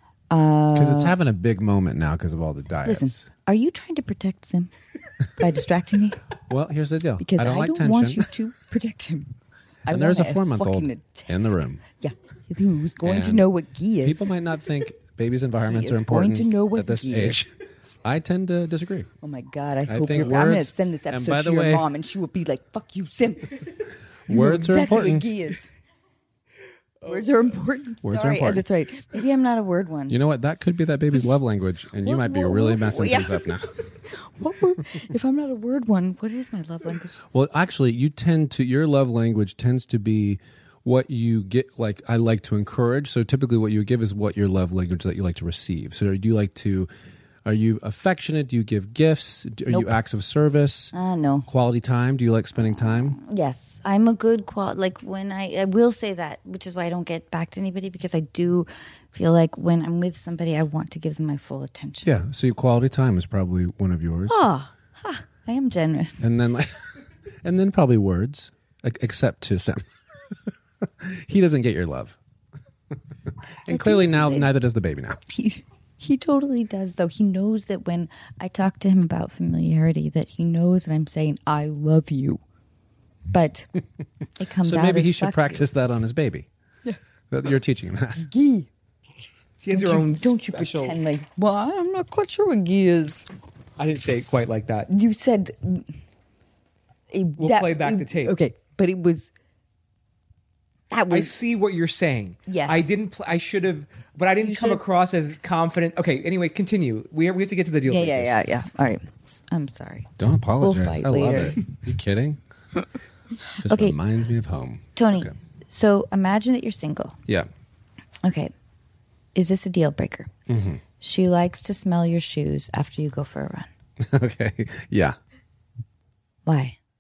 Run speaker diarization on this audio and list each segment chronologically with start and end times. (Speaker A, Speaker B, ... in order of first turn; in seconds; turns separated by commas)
Speaker A: 0.3-1.1, Speaker B: 0.7-3.3, Speaker A: 2.9-4.7, Speaker A: 5.4-6.2, Speaker B: 6.5-8.3, Speaker A: 7.2-9.3, Speaker A: 9.9-11.3, Speaker B: 9.9-11.8, Speaker A: 12.0-14.3, Speaker B: 13.0-17.5, Speaker A: 15.7-17.5, Speaker B: 18.0-19.1, Speaker A: 19.2-23.6, Speaker B: 19.9-21.9, Speaker B: 24.3-25.2, Speaker A: 24.3-25.7, Speaker C: 27.0-27.5, Speaker A: 27.1-30.2, Speaker B: 28.0-28.7, Speaker B: 30.1-33.7, Speaker A: 32.0-37.2, Speaker B: 37.3-46.9, Speaker B: 47.5-50.9, Speaker A: 49.7-50.0, Speaker A: 50.9-51.5, Speaker B: 51.5-53.2, Speaker A: 52.6-62.1, Speaker B: 62.0-64.4, Speaker A: 64.3-66.2, Speaker B: 66.2-66.9, Speaker B: 67.4-69.8, Speaker B: 70.8-72.2, Speaker B: 73.7-75.2, Speaker A: 73.7-74.5, Speaker A: 75.3-82.4, Speaker A: 83.3-83.7, Speaker A: 84.4-85.7, Speaker B: 84.6-86.5, Speaker B: 87.3-88.3, Speaker A: 88.2-88.7, Speaker C: 89.6-91.0, Speaker A: 89.7-93.3, Speaker C: 93.8-94.9, Speaker A: 94.9-95.9, Speaker A: 97.1-99.3, Speaker C: 97.4-98.4, Speaker A: 100.9-101.4, Speaker C: 101.1-108.4, Speaker A: 102.5-102.9, Speaker A: 104.4-104.8, Speaker A: 107.9-111.6, Speaker B: 110.2-112.4, Speaker B: 113.6-115.3, Speaker A: 113.6-114.0, Speaker A: 115.0-117.2, Speaker A: 118.2-118.5, Speaker A: 119.3-120.3, Speaker B: 120.5-120.8, Speaker A: 121.0-123.7, Speaker B: 124.0-125.2, Speaker A: 126.5-126.8